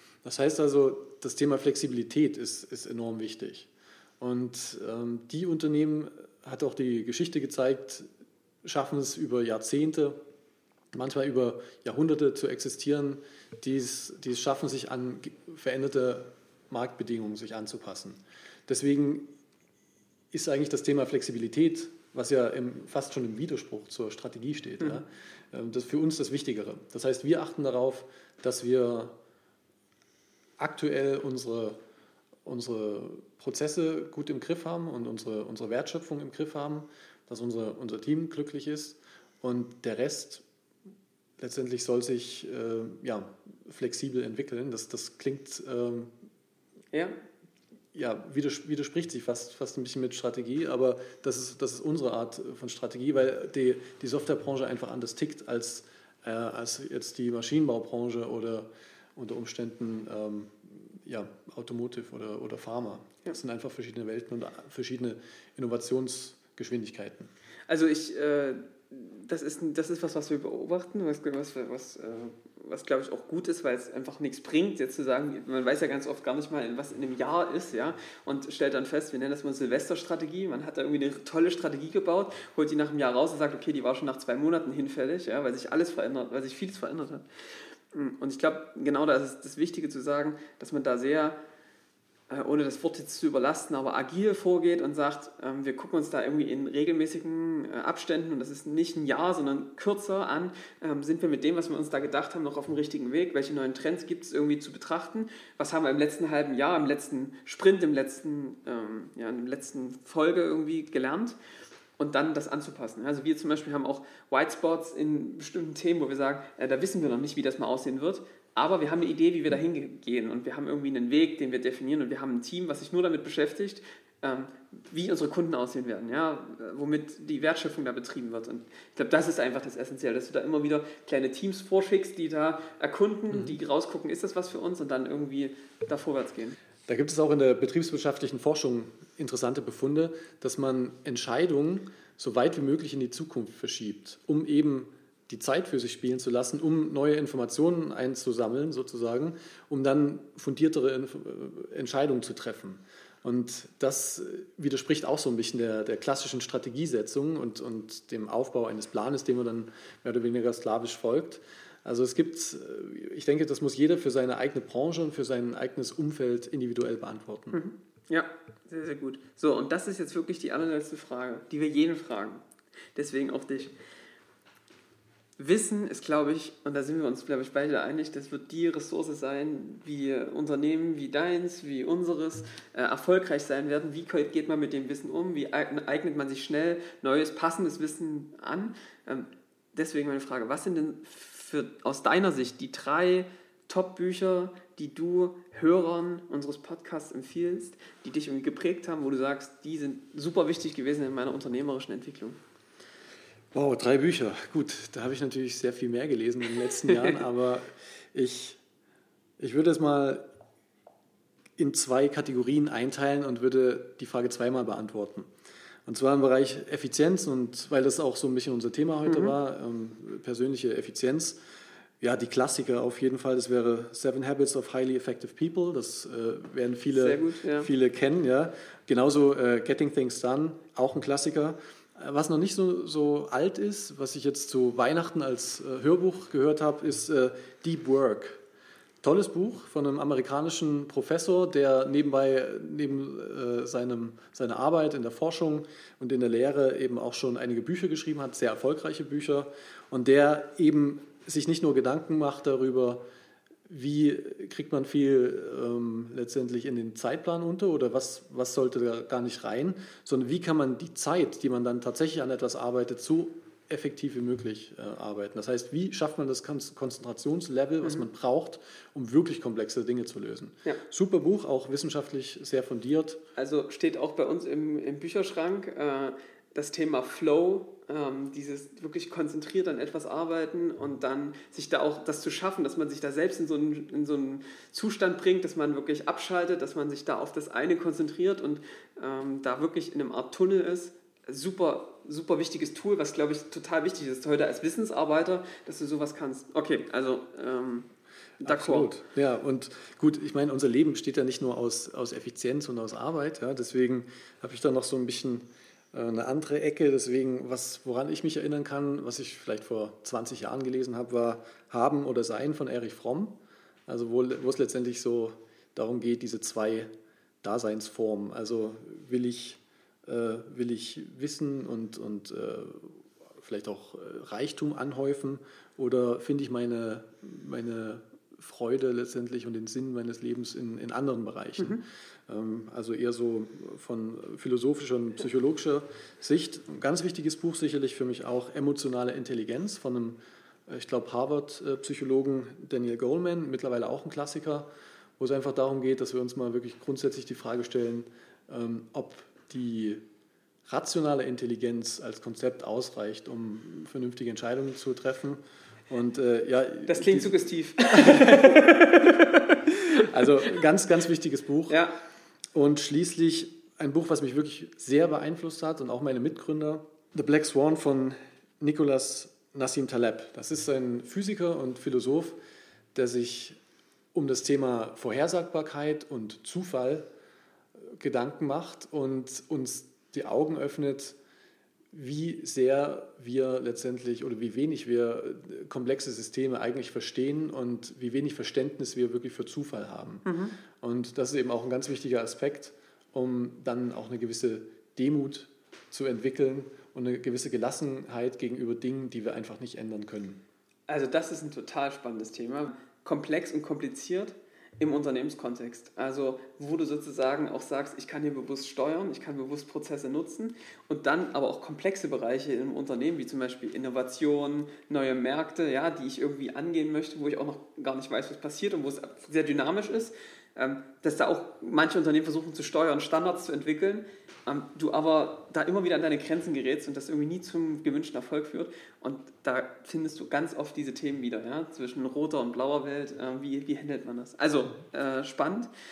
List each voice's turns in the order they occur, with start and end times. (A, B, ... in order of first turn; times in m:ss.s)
0:00.2-0:08.1 A
0:08.6-0:10.2 A
0:10.9-0:19.3 A
0:20.3-0:29.2 A
0:30.6-0:31.8 A
0:32.4-0:40.4 A
0:41.4-0:46.1 A
0:46.9-0:47.2 B
0:47.9-1:07.3 A
1:07.7-1:27.3 B
1:27.9-1:31.4 B
1:32.3-1:51.4 B
1:52.0-2:16.6 B
2:13.3-2:13.6 A
2:16.9-2:47.6 A
2:47.5-2:52.4 B
2:53.0-2:53.7 B
2:55.4-3:22.4 B
3:23.5-3:28.6 A
3:26.9-3:27.2 B
3:29.4-3:30.2 A
3:31.6-3:35.3 A
3:35.9-3:41.4 A
3:39.0-3:39.3 B
3:42.0-3:58.4 A
3:47.0-3:47.7 B
3:59.0-4:13.0 A
4:13.7-4:33.2 A
4:33.4-4:57.9 B
4:58.4-4:58.9 B
4:58.4-5:16.9 A
5:17.4-5:50.0 A
5:50.7-5:59.2 A
5:56.9-6:00.2 B
5:59.7-6:01.8 A
6:01.7-6:02.0 B
6:02.5-6:12.4 A
6:12.9-6:13.6 A
6:14.1-6:17.1 A
6:18.0-6:21.2 A
6:21.9-6:40.4 A
6:30.2-6:30.6 B
6:40.9-7:15.7 B